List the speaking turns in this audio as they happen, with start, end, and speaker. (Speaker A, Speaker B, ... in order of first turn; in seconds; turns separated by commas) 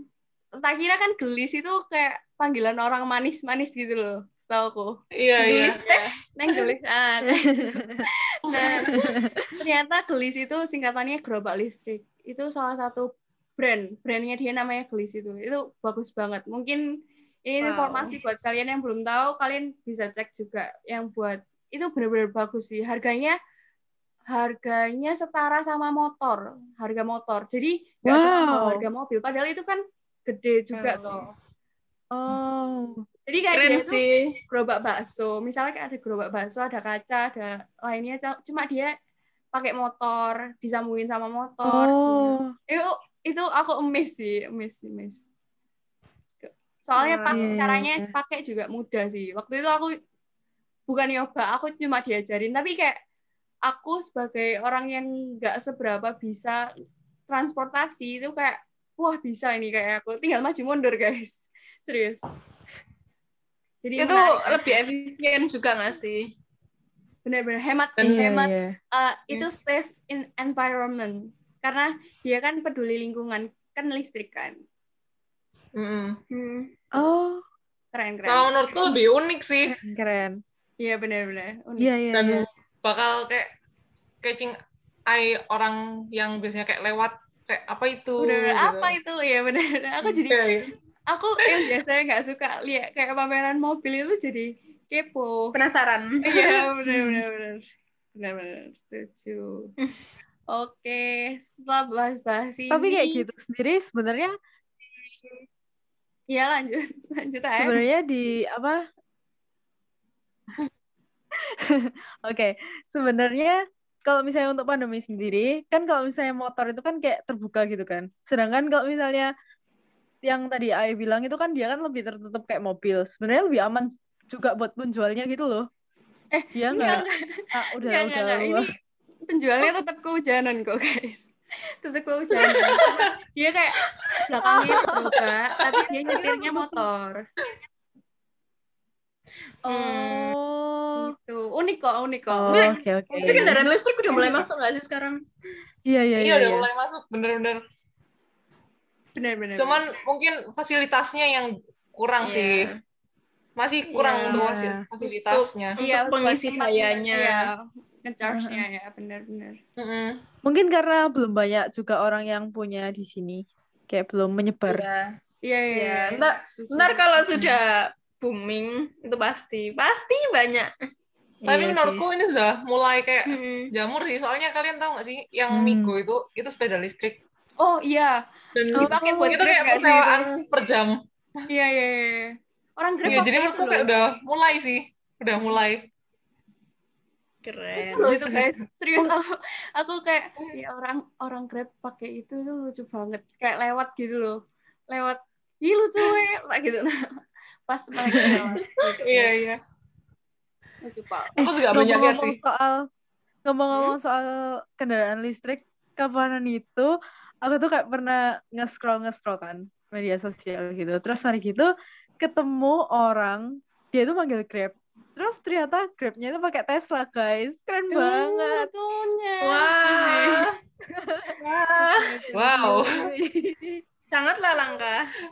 Speaker A: 0.6-7.9, Speaker B: 5.2-5.8, Speaker C: 5.5-6.1, Speaker D: 7.3-8.0, Speaker C: 8.5-9.0, Speaker A: 8.5-8.9, Speaker D: 8.9-9.4, Speaker A: 9.6-16.8, Speaker A: 17.5-23.4, Speaker C: 17.6-18.2, Speaker A: 24.3-31.2, Speaker D: 28.1-28.9, Speaker C: 30.7-31.3, Speaker D: 32.1-33.0, Speaker A: 33.3-38.9, Speaker C: 33.5-34.4, Speaker A: 39.5-45.2, Speaker D: 41.6-42.5, Speaker A: 46.4-49.9, Speaker C: 47.0-47.6, Speaker D: 47.3-48.1, Speaker A: 50.9-53.0, Speaker A: 53.7-56.6, Speaker A: 57.3-62.2, Speaker A: 63.8-64.6, Speaker C: 64.0-66.3, Speaker A: 67.2-74.5, Speaker D: 68.0-68.8, Speaker B: 75.7-76.2, Speaker C: 76.3-76.7, Speaker D: 76.9-77.4, Speaker A: 77.9-78.5, Speaker B: 78.2-79.8, Speaker D: 79.6-80.4, Speaker A: 80.8-81.9, Speaker D: 81.8-82.5, Speaker B: 82.1-83.5, Speaker B: 84.2-84.6, Speaker B: 85.1-89.0, Speaker A: 88.2-90.4, Speaker B: 90.3-90.7, Speaker A: 91.1-95.5, Speaker C: 95.5-96.7, Speaker A: 96.2-97.6, Speaker D: 96.8-97.2, Speaker A: 98.1-99.7, Speaker A: 100.5-103.2, Speaker D: 102.7-104.3, Speaker A: 106.3-107.8, Speaker D: 107.6-108.8, Speaker D: 111.6-119.3, Speaker D: 120.2-125.7, Speaker A: 126.3-128.7, Speaker D: 126.5-128.7, Speaker A: 129.3-131.3, Speaker A: 131.8-137.2, Speaker D: 134.5-135.1, Speaker D: 136.1-136.8, Speaker D: 139.7-141.1, Speaker C: 139.7-140.3, Speaker A: 141.0-144.5, Speaker D: 142.3-143.6, Speaker C: 142.5-145.2, Speaker D: 145.8-146.7, Speaker B: 146.2-147.6, Speaker A: 149.2-149.8, Speaker B: 149.6-152.7, Speaker C: 152.2-152.8, Speaker B: 153.6-155.8, Speaker D: 154.3-154.8, Speaker C: 155.3-157.5, Speaker A: 155.8-159.6, Speaker D: 158.3-158.6, Speaker B: 159.8-160.2, Speaker D: 160.4-164.8, Speaker C: 164.7-165.2, Speaker A: 165.4-167.3, Speaker C: 165.8-170.7, Speaker D: 171.4-172.0, Speaker B: 171.5-177.2, Speaker C: 173.3-173.7, Speaker D: 175.5-175.9, Speaker A: 177.6-178.2, Speaker B: 178.6-181.0, Speaker A: 178.7-180.3, Speaker D: 178.8-179.4, Speaker A: 181.5-183.9, Speaker B: 183.1-185.9, Speaker C: 187.4-188.4, Speaker A: 187.9-194.4, Speaker A: 194.9-197.0, Speaker A: 197.7-199.3, Speaker B: 199.0-199.6, Speaker A: 200.8-201.4, Speaker D: 201.4-202.8, Speaker B: 201.4-202.4, Speaker D: 203.4-206.9, Speaker D: 207.4-218.7, Speaker A: 217.9-220.4, Speaker C: 219.4-220.5, Speaker D: 221.1-221.3, Speaker C: 221.4-222.2, Speaker A: 221.8-222.8, Speaker B: 222.3-223.0, Speaker D: 222.6-223.8, Speaker C: 224.0-225.1